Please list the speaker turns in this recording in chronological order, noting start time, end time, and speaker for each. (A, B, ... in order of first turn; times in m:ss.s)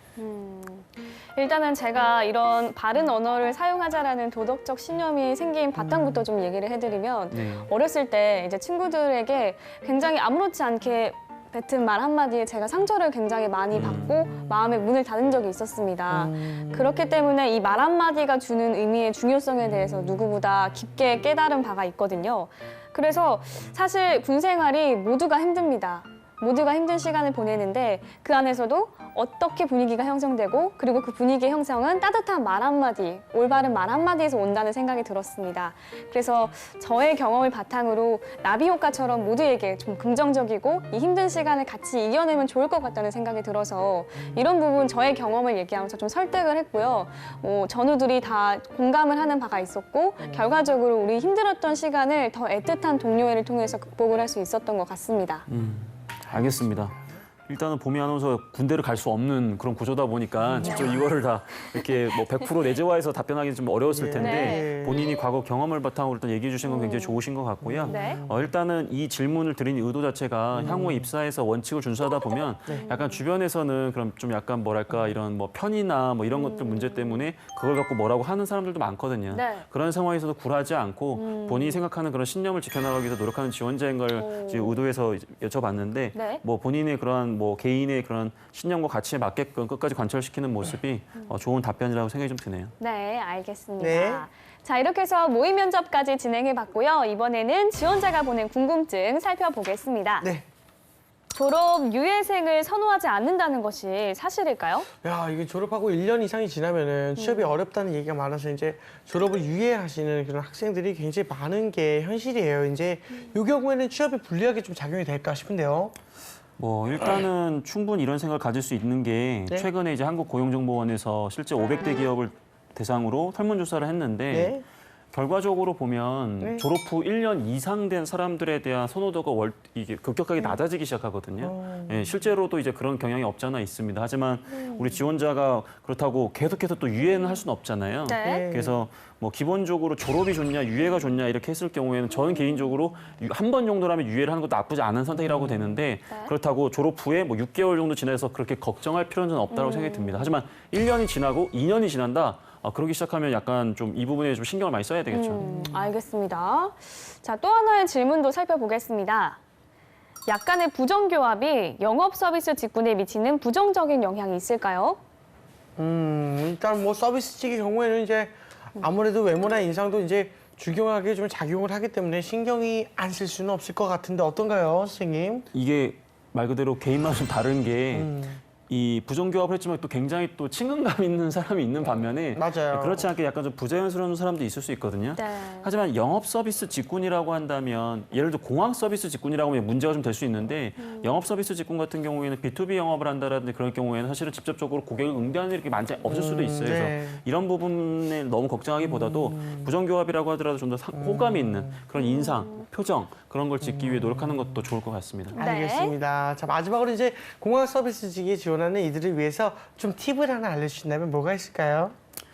0:00.2-0:55.4 A
0:05.8-0:06.2 B
0:07.3-0:07.7 C
0:13.7-0:14.2 C
0:16.1-0:17.0 B
0:19.6-0:20.3 B
0:55.5-1:32.7 C
1:00.4-1:01.0 B
1:00.6-1:01.0 A
1:03.9-1:05.0 B
1:04.2-1:04.8 A
1:06.6-1:07.2 A
1:07.6-1:08.4 B
1:07.9-1:08.2 A
1:10.5-1:11.1 B
1:12.7-1:13.2 A
1:16.4-1:17.2 A
1:19.3-1:19.6 A
1:21.1-1:21.8 A
1:24.1-1:24.8 A
1:26.1-1:26.4 A
1:32.8-1:40.3 A
1:33.8-1:34.2 B
1:40.2-1:40.4 B
1:41.3-1:44.9 A
1:45.0-1:55.9 B
1:47.2-1:47.5 A
1:56.6-2:04.6 C
2:04.3-2:04.6 B
2:05.1-2:35.5 C
2:06.4-2:06.6 B
2:11.4-2:12.1 B
2:18.0-2:18.5 A
2:18.2-2:18.8 B
2:25.3-2:25.6 B
2:29.5-2:30.3 A
2:35.1-2:39.4 A
2:35.4-2:35.9 B
2:40.3-2:45.0 A
2:45.8-2:55.5 B
2:55.5-3:25.4 C
2:57.9-2:58.4 B
3:02.3-3:03.0 B
3:05.2-3:05.7 A
3:16.1-3:17.2 B
3:18.8-3:19.6 B
3:20.9-3:21.7 B
3:23.7-3:24.3 B
3:25.3-3:25.9 A
3:25.3-3:31.9 B